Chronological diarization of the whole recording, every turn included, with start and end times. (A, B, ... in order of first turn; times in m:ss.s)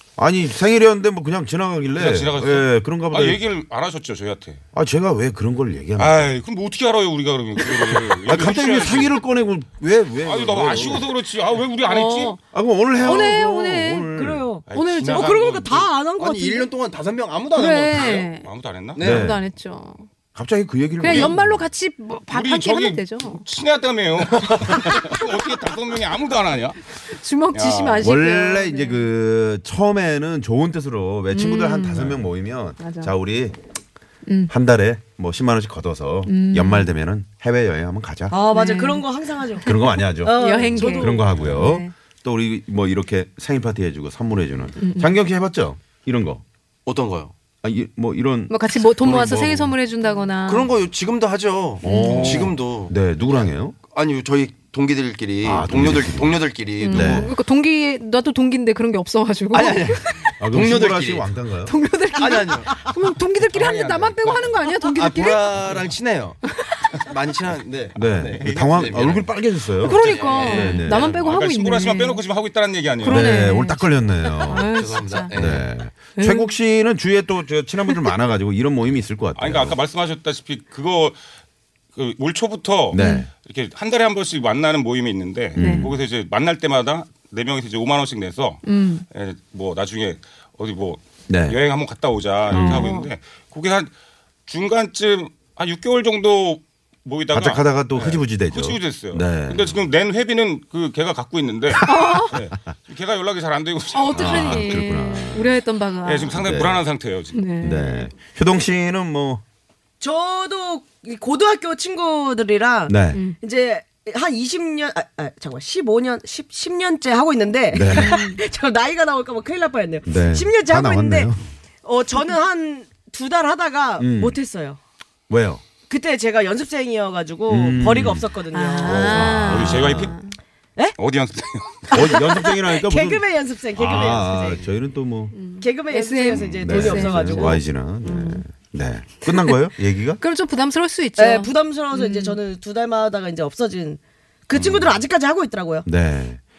0:00.2-0:03.4 A
0:01.9-0:04.6 B
0:04.7-0:06.3 A
0:06.0-0:09.2 B
0:08.3-0:11.1 A
0:10.2-0:12.4 B
0:11.8-0:12.4 C
0:12.5-0:14.4 A
0:13.0-0:14.2 C
0:13.0-0:13.4 D
0:14.1-0:16.7 D
0:14.7-0:15.9 B
0:14.7-0:15.3 C
0:16.2-0:18.3 E
0:17.5-0:20.0 C
0:18.2-0:19.0 B
0:19.0-0:19.3 E
0:19.0-0:19.4 A
0:20.3-0:21.6 A
0:21.0-0:23.4 C
0:22.3-0:27.0 B
0:24.7-0:25.1 C
0:27.0-0:29.1 C
0:27.5-0:28.0 B
0:28.0-0:33.6 A
0:31.3-0:32.2 C
0:32.8-0:33.1 C
0:34.2-0:34.5 C
0:34.5-0:38.4 A
0:36.2-0:36.9 C
0:38.3-0:41.3 D
0:38.5-0:39.0 C
0:39.6-0:46.4 A
0:40.3-0:41.9 C
0:44.8-0:45.2 C
0:46.8-0:47.3 E
0:47.6-0:48.6 A
0:48.5-0:50.7 C
0:49.0-0:49.7 E
0:50.4-0:57.3 E
0:51.8-0:53.8 A
0:51.8-0:52.5 C
0:55.4-0:57.3 A
0:56.8-1:00.3 C
0:59.5-1:01.3 E
1:00.4-1:01.7 A
1:01.6-1:05.6 C
1:02.2-1:02.9 E
1:03.4-1:04.7 B
1:04.9-1:06.4 E
1:05.6-1:05.9 B
1:06.9-1:09.3 E
1:07.9-1:09.3 B
1:07.9-1:11.2 A
1:09.8-1:13.3 B
1:09.8-1:12.2 C
1:13.0-1:15.4 C
1:13.0-1:14.7 A
1:14.5-1:15.7 E
1:15.2-1:19.8 A
1:16.2-1:16.5 C
1:19.3-1:21.2 B
1:21.9-1:33.9 B
1:22.9-1:23.3 A
1:23.0-1:23.3 C
1:25.6-1:26.0 A
1:25.6-1:25.9 C
1:28.6-1:29.0 C
1:31.3-1:31.6 A
1:32.5-1:33.0 A
1:32.5-1:33.1 C
1:34.5-1:44.7 B
1:37.3-1:39.8 A
1:41.8-1:42.4 A
1:41.8-1:42.4 C
1:43.9-1:46.4 C
1:44.1-1:45.6 A
1:46.0-1:47.4 B
1:46.3-1:46.8 A
1:47.3-1:48.1 C
1:47.6-1:49.4 A
1:50.0-2:01.3 D
1:52.9-1:53.2 A
1:53.1-1:53.4 C
1:57.7-1:58.2 A
1:57.8-1:58.4 C
2:00.0-2:01.4 A
2:01.8-2:04.8 D
2:04.0-2:04.4 A
2:05.3-2:05.6 A
2:05.9-2:09.3 D
2:07.5-2:08.3 A
2:08.5-2:10.3 C
2:08.8-2:10.1 A
2:09.3-2:10.1 B
2:11.0-2:11.8 B
2:11.9-2:14.6 D
2:11.9-2:15.4 A
2:15.3-2:18.4 C
2:15.6-2:17.6 D
2:16.4-2:20.2 A
2:19.3-2:19.6 C
2:20.2-2:22.4 C
2:21.2-2:25.8 D
2:24.6-2:25.0 A
2:25.8-2:26.4 A